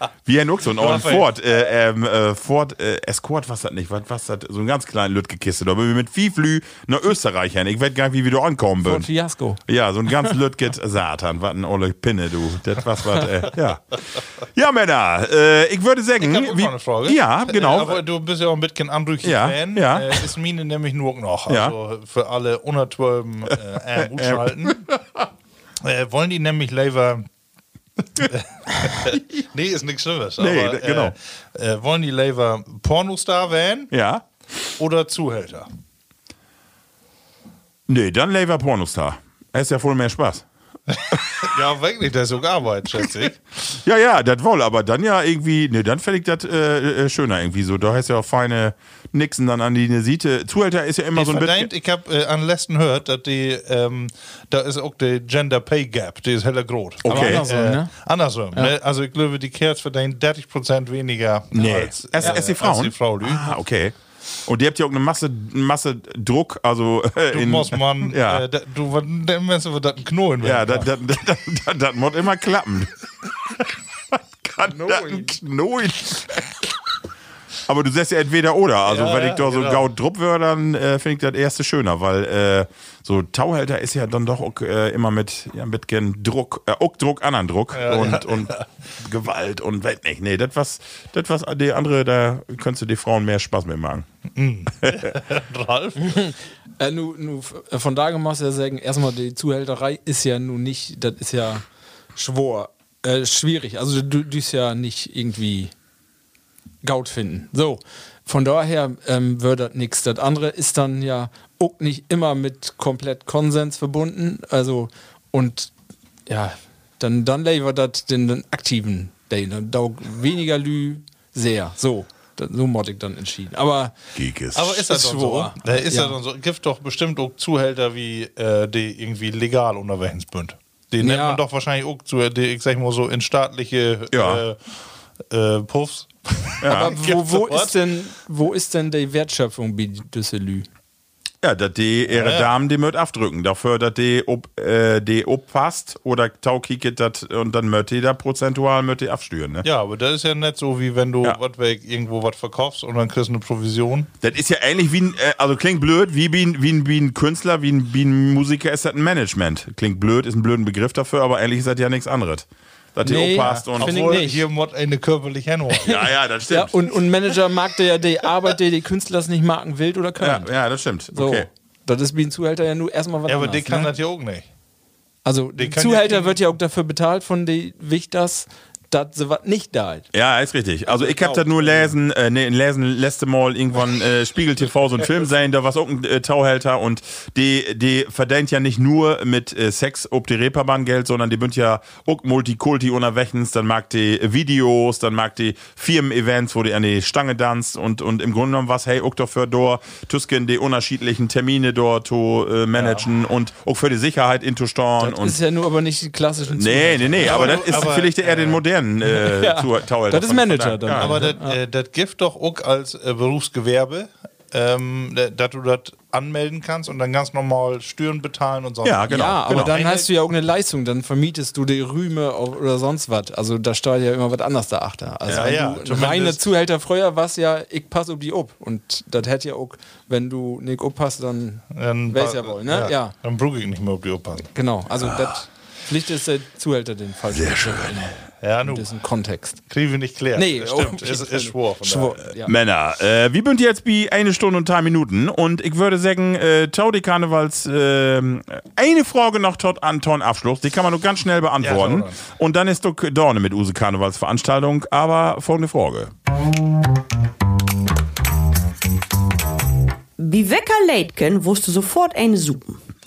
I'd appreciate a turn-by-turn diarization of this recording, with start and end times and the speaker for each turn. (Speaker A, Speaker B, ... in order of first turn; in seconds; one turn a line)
Speaker A: 0.3-9.1
Speaker B: 0.7-1.3
Speaker C: 8.8-9.6
Speaker A: 9.7-18.0
Speaker B: 16.2-24.8
Speaker A: 19.2-20.2
Speaker A: 21.5-21.7
Speaker A: 23.5-25.0
Speaker B: 25.8-27.3
Speaker B: 28.1-33.9
Speaker A: 30.4-31.1
Speaker A: 33.9-34.2
Speaker B: 34.8-35.7
Speaker A: 37.9-40.5
Speaker B: 40.9-43.4
Speaker A: 43.7-51.7
Speaker B: 51.1-63.5
Speaker A: 57.0-57.4
Speaker C: 57.1-57.9
Speaker A: 61.5-63.9
Speaker A: 64.5-68.5
Speaker B: 67.3-70.9
Speaker A: 70.4-72.9
Speaker A: 74.1-76.7
Speaker C: 74.7-75.4
Speaker A: 77.7-94.1
Speaker B: 78.8-79.9
Speaker B: 87.7-88.7
Speaker B: 94.3-96.3
Speaker A: 94.8-95.1
Speaker C: 96.0-101.6
Speaker C: 102.2-105.7
Speaker C: 106.8-115.7
Speaker C: 116.3-123.9
Speaker A: 124.1-124.7
Speaker B: 124.5-134.8
Speaker C: 124.6-126.2
Speaker C: 131.0-131.4
Speaker A: 134.1-134.4
Speaker B: 135.3-137.8
Speaker A: 136.6-136.9
Speaker C: 136.6-140.7
Speaker A: 141.4-149.7
Speaker B: 142.1-142.5
Speaker B: 149.6-154.1
Speaker A: 154.2-164.1
Speaker C: 163.0-164.4
Speaker B: 163.4-166.1
Speaker A: 165.8-167.0
Speaker C: 166.5-170.5
Speaker A: 170.2-171.5
Speaker C: 171.1-173.9
Speaker B: 173.3-174.4
Speaker C: 175.2-180.1
Speaker B: 175.6-176.4
Speaker A: 180.1-205.4
Speaker C: 180.9-181.9
Speaker B: 202.8-203.1
Speaker C: 205.0-207.7
Speaker A: 206.5-211.2
Speaker B: 207.2-208.6
Speaker C: 209.1-211.6
Speaker B: 211.0-220.1
Speaker A: 218.8-219.8
Speaker C: 219.1-233.1
Speaker B: 225.3-226.4
Speaker B: 231.7-234.5
Speaker C: 234.6-239.6
Speaker A: 237.3-238.1
Speaker B: 238.4-238.9
Speaker B: 239.7-242.3
Speaker C: 240.3-242.5
Speaker A: 242.4-256.1
Speaker B: 251.6-252.2
Speaker D: 260.2-262.8